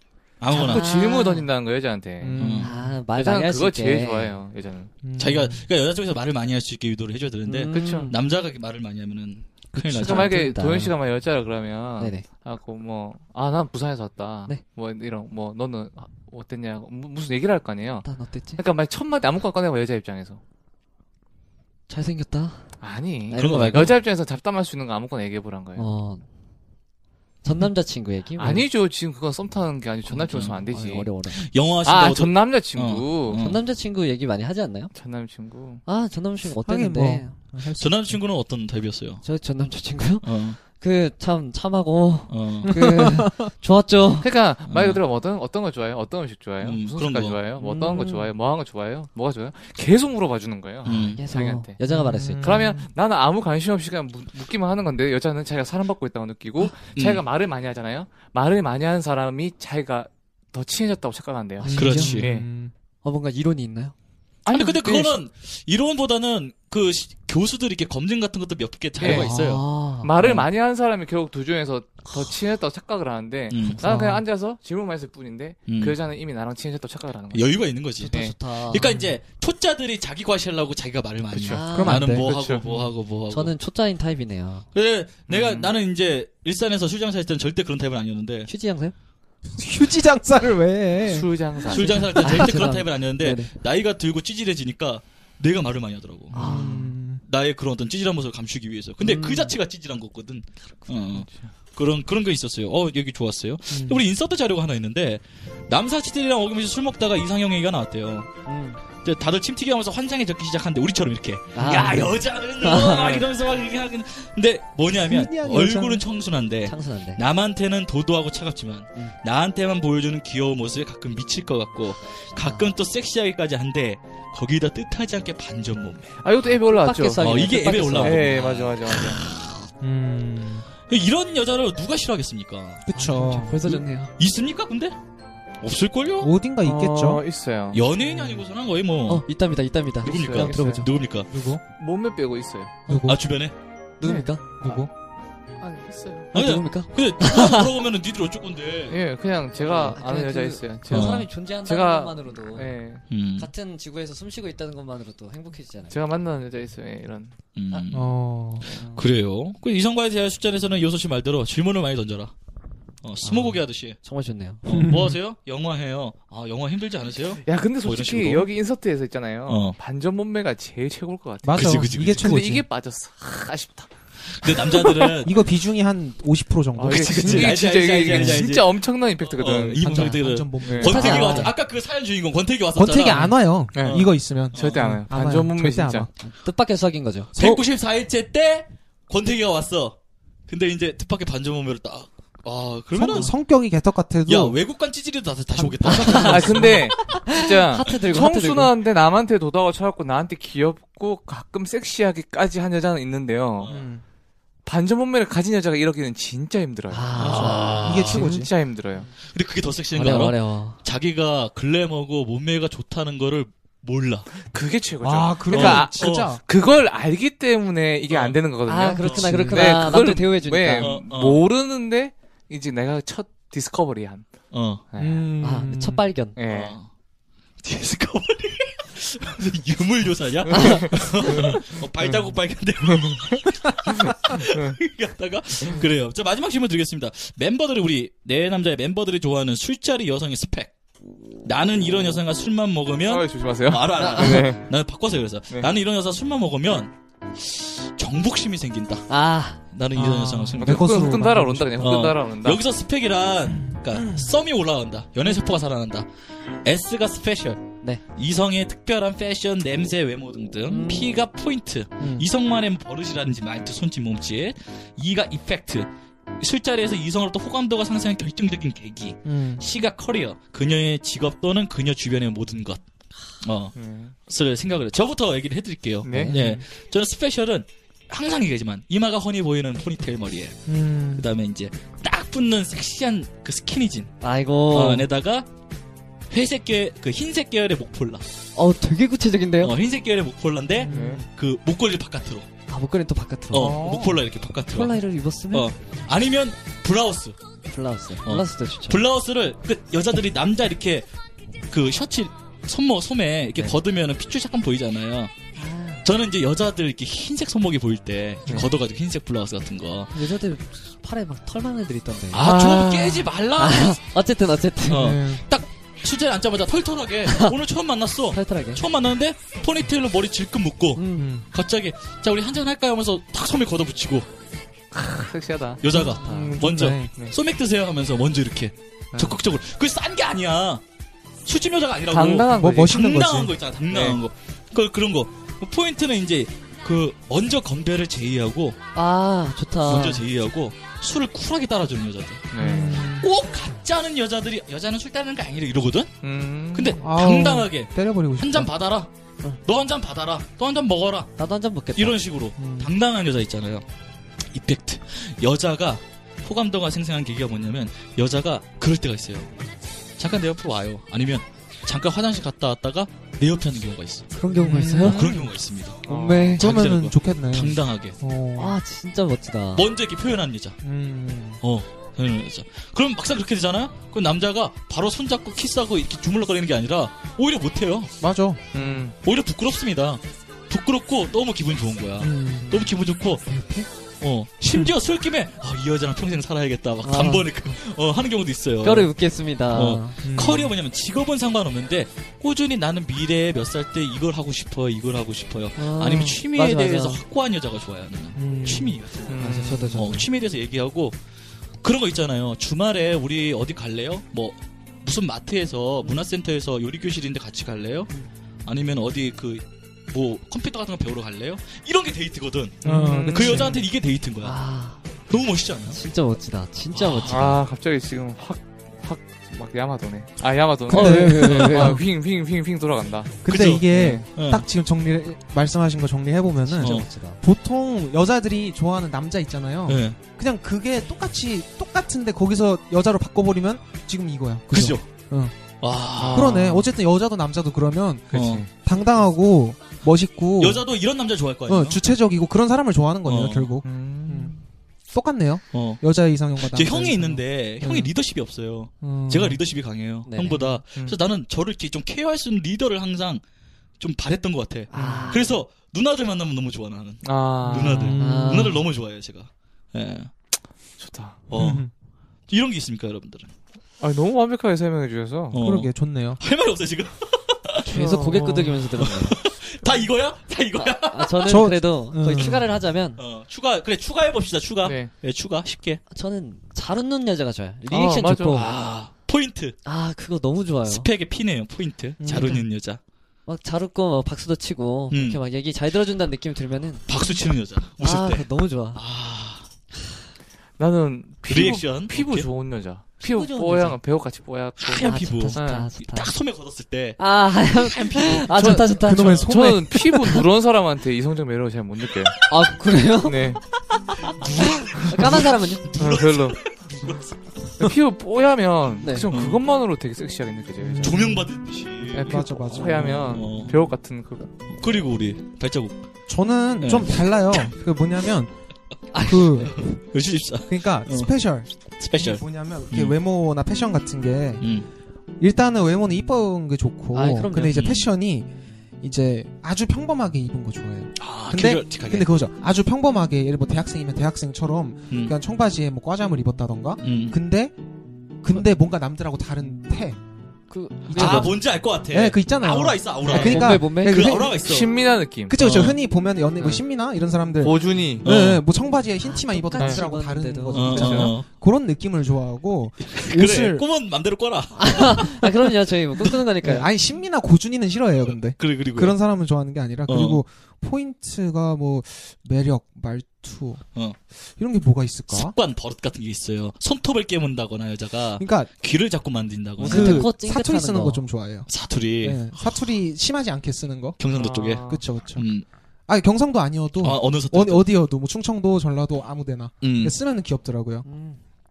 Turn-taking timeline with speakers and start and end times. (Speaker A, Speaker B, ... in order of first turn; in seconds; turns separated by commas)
Speaker A: 0.4-0.9, Speaker B: 0.5-2.6, Speaker C: 0.5-1.5, Speaker D: 2.2-2.9, Speaker A: 2.4-2.7, Speaker C: 2.6-4.4, Speaker B: 3.1-4.9, Speaker D: 5.0-5.6, Speaker A: 5.2-10.5, Speaker C: 7.5-8.2, Speaker B: 7.7-8.1, Speaker B: 9.9-18.1, Speaker C: 9.9-10.9, Speaker C: 12.0-12.2, Speaker C: 18.0-18.6, Speaker B: 18.6-20.4, Speaker C: 21.9-22.6, Speaker B: 22.8-25.9, Speaker C: 23.3-23.9, Speaker A: 23.3-24.0, Speaker C: 25.8-26.2, Speaker C: 27.4-28.7, Speaker B: 28.4-31.1, Speaker A: 30.1-30.6, Speaker C: 30.7-31.4, Speaker A: 31.3-33.6, Speaker B: 31.8-33.4, Speaker C: 33.4-34.9, Speaker B: 34.9-35.8, Speaker C: 35.9-37.3, Speaker D: 36.6-38.2, Speaker A: 37.8-39.2, Speaker C: 39.2-44.3, Speaker A: 40.2-40.6, Speaker A: 42.3-42.7, Speaker D: 42.6-43.5, Speaker B: 44.2-51.7, Speaker A: 44.7-45.0, Speaker A: 46.6-47.4, Speaker C: 47.6-48.3, Speaker A: 50.8-51.2, Speaker C: 50.9-52.6, Speaker D: 51.9-52.9, Speaker B: 52.4-62.5, Speaker A: 57.0-57.2, Speaker C: 61.6-62.2, Speaker D: 61.7-62.7, Speaker A: 61.8-62.3, Speaker C: 63.0-63.9, Speaker B: 64.4-65.2, Speaker A: 64.5-69.6, Speaker B: 69.0-69.3, Speaker C: 69.0-70.1, Speaker B: 70.0-77.6, Speaker A: 70.2-70.5, Speaker A: 73.5-73.8, Speaker D: 73.8-74.2, Speaker A: 75.7-76.0, Speaker A: 77.3-83.5, Speaker C: 78.0-78.9, Speaker B: 81.3-82.8, Speaker C: 81.5-82.2, Speaker D: 81.7-82.8, Speaker C: 83.3-84.7, Speaker A: 84.7-88.5, Speaker B: 85.3-85.7, Speaker C: 88.5-88.9, Speaker D: 89.6-91.3, Speaker B: 91.0-92.4, Speaker A: 91.7-96.4, Speaker C: 92.1-93.5, Speaker C: 96.3-96.9, Speaker D: 96.3-97.2, Speaker B: 96.4-96.8, Speaker A: 97.2-108.3, Speaker C: 99.0-99.5, Speaker B: 101.1-101.5, Speaker D: 103.7-104.0, Speaker C: 108.5-108.8, Speaker A: 109.0-126.2, Speaker C: 111.5-113.1, Speaker B: 112.8-113.2, Speaker D: 115.0-116.0, Speaker C: 116.6-117.2, Speaker C: 122.3-122.7, Speaker B: 126.2-129.2, Speaker C: 126.7-128.7, Speaker A: 127.2-129.5, Speaker D: 129.8-130.7, Speaker A: 130.9-132.8, Speaker D: 132.8-133.7, Speaker C: 132.9-134.1, Speaker A: 133.6-134.9, Speaker A: 135.6-136.3, Speaker D: 136.2-137.2, Speaker B: 136.6-137.8, Speaker A: 137.7-139.2, Speaker C: 139.1-140.9, Speaker A: 140.0-141.3, Speaker B: 140.0-140.8, Speaker D: 141.3-141.6, Speaker B: 141.8-142.8, Speaker C: 142.9-143.1, Speaker D: 142.9-143.2, Speaker A: 143.0-143.5, Speaker C: 144.0-144.4, Speaker B: 144.0-144.8, Speaker D: 144.6-144.9, Speaker B: 145.6-146.3, Speaker C: 146.3-147.7, Speaker A: 146.3-149.0, Speaker B: 148.9-153.0, Speaker C: 149.7-152.7, Speaker A: 150.9-151.3, Speaker A: 153.1-153.5, Speaker C: 153.4-155.9, Speaker B: 155.9-157.3, Speaker A: 157.6-158.2, Speaker D: 157.9-158.7, Speaker A: 158.7-162.3, Speaker A: 163.0-164.0, Speaker C: 163.2-164.6, Speaker A: 164.6-168.5, Speaker D: 164.7-165.2, Speaker B: 167.4-173.9, Speaker A: 169.5-169.8, Speaker D: 171.4-172.7, Speaker A: 171.5-172.4, Speaker A: 174.4-175.4, Speaker B: 174.4-175.2, Speaker D: 175.2-178.4, Speaker B: 176.8-181.3, Speaker A: 176.9-185.0, Speaker D: 179.8-181.5, Speaker C: 180.8-181.5, Speaker D: 182.7-186.1, Speaker B: 183.7-186.1, Speaker C: 186.2-187.3, Speaker D: 187.3-187.6, Speaker A: 187.3-190.0, Speaker A: 190.5-193.3, Speaker D: 192.9-194.6, Speaker A: 194.3-196.9, Speaker D: 195.5-196.8, Speaker C: 196.0-198.7, Speaker B: 196.0-203.7, Speaker A: 203.6-203.9, Speaker D: 203.6-204.0, Speaker B: 204.7-209.1, Speaker C: 206.9-207.7, Speaker A: 207.2-208.2, Speaker D: 207.4-208.5, Speaker A: 209.2-214.3, Speaker C: 209.9-210.8, Speaker B: 214.4-224.3, Speaker D: 215.0-216.4, Speaker A: 215.5-216.3, Speaker A: 218.1-218.4, Speaker C: 218.7-220.9, Speaker A: 219.0-219.3, Speaker D: 219.2-219.7, Speaker A: 220.8-221.4, Speaker A: 224.5-224.8, Speaker B: 224.9-225.3, Speaker D: 225.0-226.0, Speaker C: 225.4-226.4, Speaker B: 226.3-226.7, Speaker A: 226.5-226.9, Speaker A: 227.6-240.7, Speaker B: 230.5-234.8, Speaker A: 241.4-249.1, Speaker B: 243.0-244.7, Speaker C: 244.0-244.4, Speaker C: 249.1-249.6, Speaker A: 249.7-251.1, Speaker D: 250.0-251.8, Speaker B: 250.6-252.6, Speaker A: 251.8-256.1, Speaker D: 253.6-254.3, Speaker A: 256.6-272.8, Speaker C: 260.6-261.1, Speaker D: 262.0-262.3, Speaker D: 269.2-269.6, Speaker A: 273.4-273.7, Speaker B: 273.8-274.1, Speaker A: 274.3-280.6, Speaker B: 276.0-276.4, Speaker C: 276.1-276.3, Speaker D: 276.3-276.6, Speaker D: 280.7-281.3, Speaker A: 281.1-284.1, Speaker C: 284.2-285.1, Speaker A: 284.7-285.5, Speaker A: 286.3-288.2, Speaker C: 288.5-289.8, Speaker A: 289.6-292.5, Speaker D: 290.8-291.2, Speaker B: 290.9-291.2, Speaker C: 292.7-293.9, Speaker A: 293.5-295.0, Speaker D: 293.5-294.2, Speaker C: 294.7-295.7, Speaker A: 295.5-297.4, Speaker C: 297.7-299.0, Speaker A: 298.2-301.1, Speaker A: 301.7-305.3, Speaker C: 305.6-306.0, Speaker A: 306.0-310.1, Speaker C: 310.1-315.2, Speaker A: 312.3-314.0, Speaker B: 312.4-312.9, Speaker A: 314.9-324.3, Speaker D: 314.9-315.5, Speaker C: 317.3-317.5, Speaker C: 318.3-318.8, Speaker C: 320.9-321.3, Speaker D: 321.1-321.4, Speaker B: 324.9-327.3, Speaker A: 325.8-330.8, Speaker D: 325.9-327.1, Speaker C: 325.9-326.6, Speaker B: 329.1-329.4, Speaker A: 331.4-338.8, Speaker B: 332.1-333.0, Speaker D: 332.5-333.5, Speaker B: 333.9-334.2, Speaker C: 338.9-340.2, Speaker A: 339.8-342.5, Speaker B: 342.5-343.1, Speaker D: 342.6-343.3, Speaker A: 343.2-346.1, Speaker B: 346.2-347.0, Speaker A: 346.7-349.1, Speaker D: 347.0-348.7, Speaker A: 349.6-351.3, Speaker C: 351.4-352.2, Speaker A: 351.9-353.8, Speaker D: 352.6-352.9, Speaker A: 354.5-359.5, Speaker A: 360.2-364.3, Speaker C: 364.4-365.3, Speaker D: 364.4-365.5, Speaker A: 365.0-366.0, Speaker B: 366.0-366.6, Speaker C: 366.1-366.6, Speaker D: 366.5-368.7, Speaker A: 366.6-368.2, Speaker C: 368.6-369.9, Speaker A: 369.7-370.8, Speaker D: 370.8-371.6, Speaker A: 371.6-378.1, Speaker D: 378.2-378.8, Speaker B: 378.7-379.1, Speaker A: 379.2-383.4, Speaker D: 382.2-382.7, Speaker C: 383.5-383.9, Speaker A: 384.2-389.1, Speaker C: 387.0-387.5, Speaker C: 388.8-390.2, Speaker A: 389.7-399.3, Speaker D: 390.2-390.7, Speaker C: 395.8-397.2, Speaker D: 398.4-399.0, Speaker B: 399.3-400.0, Speaker C: 399.3-400.2, Speaker A: 399.9-401.2, Speaker A: 401.8-408.1, Speaker A: 408.6-414.6, Speaker D: 412.8-413.7, Speaker B: 412.8-413.8, Speaker C: 414.4-415.0, Speaker A: 415.3-416.0, Speaker C: 415.9-417.6, Speaker A: 416.9-417.5, Speaker B: 417.3-424.3, Speaker C: 420.9-422.0, Speaker D: 420.9-422.0, Speaker D: 423.4-435.5, Speaker A: 423.5-424.6, Speaker C: 426.6-427.4, Speaker A: 426.8-427.1, Speaker A: 429.9-430.2, Speaker A: 434.7-435.1, Speaker A: 435.8-436.6, Speaker B: 436.1-436.9, Speaker D: 436.3-440.8, Speaker B: 438.3-438.7, Speaker A: 438.3-438.6, Speaker A: 440.6-442.0, Speaker D: 441.6-444.5, Speaker A: 443.2-443.8, Speaker B: 443.8-444.6, Speaker D: 445.1-448.1, Speaker A: 445.7-446.0, Speaker A: 446.6-453.4, Speaker D: 449.0-449.6, Speaker C: 450.2-450.8, Speaker B: 450.9-451.2, Speaker A: 454.0-460.3, Speaker C: 454.9-455.4, Speaker B: 454.9-455.5, Speaker B: 457.2-458.2, Speaker D: 457.7-458.8, Speaker C: 458.2-458.8, Speaker B: 461.0-461.5, Speaker A: 461.5-461.9, Speaker D: 461.5-461.9, Speaker A: 462.5-463.5, Speaker B: 464.0-465.6, Speaker A: 465.5-467.8, Speaker D: 465.6-466.4, Speaker C: 467.8-469.4, Speaker B: 467.9-468.9, Speaker A: 469.0-471.7, Speaker C: 471.0-473.2, Speaker D: 471.4-472.7, Speaker A: 473.2-476.0, Speaker B: 474.8-475.1, Speaker C: 476.1-478.7, Speaker B: 477.9-478.7, Speaker A: 478.5-479.8, Speaker C: 479.8-481.1, Speaker A: 480.9-483.0, Speaker D: 482.2-482.6, Speaker C: 483.5-487.1, Speaker A: 485.1-485.4, Speaker A: 487.1-489.6, Speaker C: 488.0-489.0, Speaker B: 490.8-495.9, Speaker A: 491.5-492.5, Speaker C: 493.2-493.9, Speaker A: 494.8-499.5, Speaker C: 495.0-496.3, Speaker C: 497.2-499.4, Speaker B: 498.5-502.4, Speaker D: 499.0-500.4, Speaker C: 502.5-503.5, Speaker B: 503.2-503.6, Speaker B: 504.4-505.4, Speaker A: 504.4-507.3, Speaker C: 504.8-505.9, Speaker B: 505.9-506.6, Speaker B: 507.8-511.3, Speaker C: 509.0-509.3, Speaker A: 509.3-509.6, Speaker D: 510.8-511.5, Speaker A: 511.0-513.7, Speaker D: 512.1-513.4, Speaker B: 512.1-514.5, Speaker A: 514.7-516.0, Speaker D: 516.3-518.5, Speaker A: 516.8-517.7, Speaker C: 519.1-519.6, Speaker D: 519.2-520.0, Speaker A: 519.6-521.3, Speaker D: 520.7-524.7, Speaker A: 522.0-523.1, Speaker A: 524.6-524.9, Speaker D: 525.4-528.5, Speaker C: 527.1-527.8, Speaker A: 527.7-528.1, Speaker D: 529.0-537.7, Speaker A: 531.2-532.3, Speaker A: 537.0-537.4, Speaker D: 538.4-540.2, Speaker C: 540.7-541.5, Speaker D: 541.1-544.6, Speaker A: 541.1-544.9, Speaker B: 543.2-543.6, Speaker C: 543.3-544.2, Speaker B: 544.2-545.6, Speaker D: 545.5-553.8, Speaker A: 545.6-546.0, Speaker B: 547.6-548.2, Speaker A: 548.2-548.6, Speaker C: 549.2-551.3, Speaker B: 549.8-550.0, Speaker A: 550.7-551.5, Speaker B: 550.9-551.3, Speaker A: 553.0-556.3, Speaker C: 554.7-556.9, Speaker D: 556.6-563.8, Speaker A: 558.6-559.1, Speaker A: 560.1-560.4, Speaker D: 564.5-565.5, Speaker A: 565.3-570.3, Speaker D: 568.4-568.7, Speaker C: 569.8-571.2, Speaker D: 569.8-571.7, Speaker A: 571.7-572.5, Speaker D: 572.2-574.2, Speaker A: 574.2-575.6, Speaker B: 574.3-575.0, Speaker D: 574.8-575.5, Speaker D: 576.1-581.0, Speaker A: 577.0-577.9, Speaker A: 579.8-580.1, Speaker C: 581.0-581.4